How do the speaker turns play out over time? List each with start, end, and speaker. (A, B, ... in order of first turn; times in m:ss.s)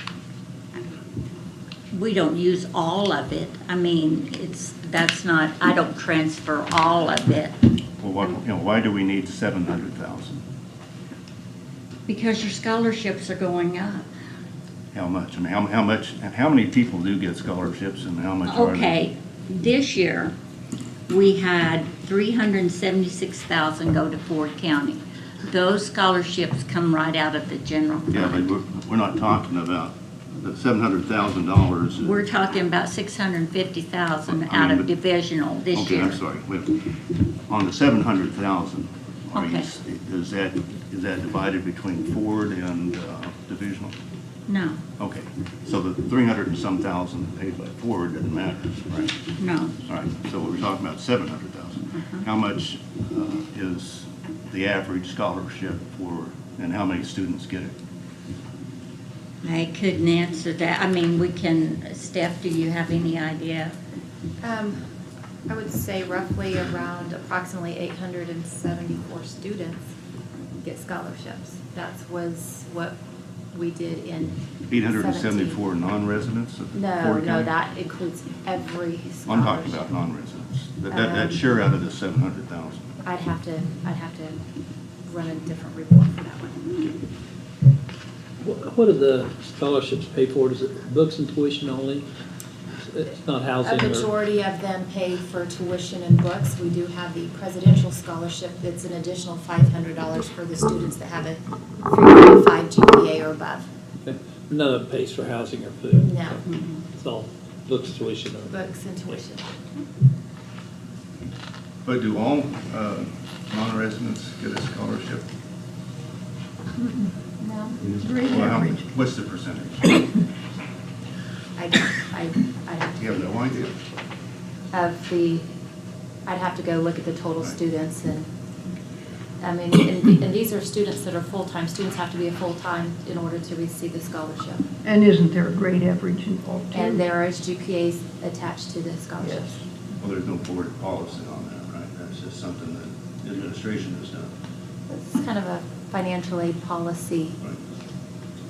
0:01.9-0:07.6 A
0:08.0-0:10.4 B
0:12.1-0:14.1 A
0:14.9-0:19.0 B
0:18.5-0:20.3 A
0:21.1-0:28.5 A
0:28.1-0:32.2 B
0:32.0-0:36.2 A
0:34.3-0:34.9 B
0:35.7-0:36.8 B
0:37.5-0:43.9 B
0:39.4-0:39.7 A
0:44.5-0:44.8 A
0:45.0-0:49.2 B
0:49.4-0:49.8 A
0:49.9-0:57.8 B
0:59.4-1:03.8 A
1:04.4-1:04.8 C
1:05.5-1:09.9 C
1:10.6-1:13.0 C
1:13.5-1:15.6 C
1:14.7-1:17.5 B
1:16.7-1:19.9 C
1:19.3-1:22.9 B
1:20.9-1:21.4 C
1:23.0-1:24.4 C
1:25.1-1:27.0 C
1:28.4-1:32.1 D
1:32.9-1:34.1 D
1:33.6-1:43.7 C
1:44.0-1:49.2 D
1:46.0-1:46.4 C
1:48.5-1:49.5 C
1:51.8-1:55.3 B
1:57.4-1:57.8 C
1:57.9-1:59.9 B
1:57.9-1:58.8 E
2:01.6-2:03.5 C
2:03.0-2:03.8 B
2:04.7-2:05.5 C
2:06.3-2:08.3 C
2:09.4-2:14.6 C
2:14.8-2:17.1 E
2:16.7-2:19.6 C
2:19.2-2:19.5 E
2:20.0-2:24.3 B
2:24.9-2:27.4 C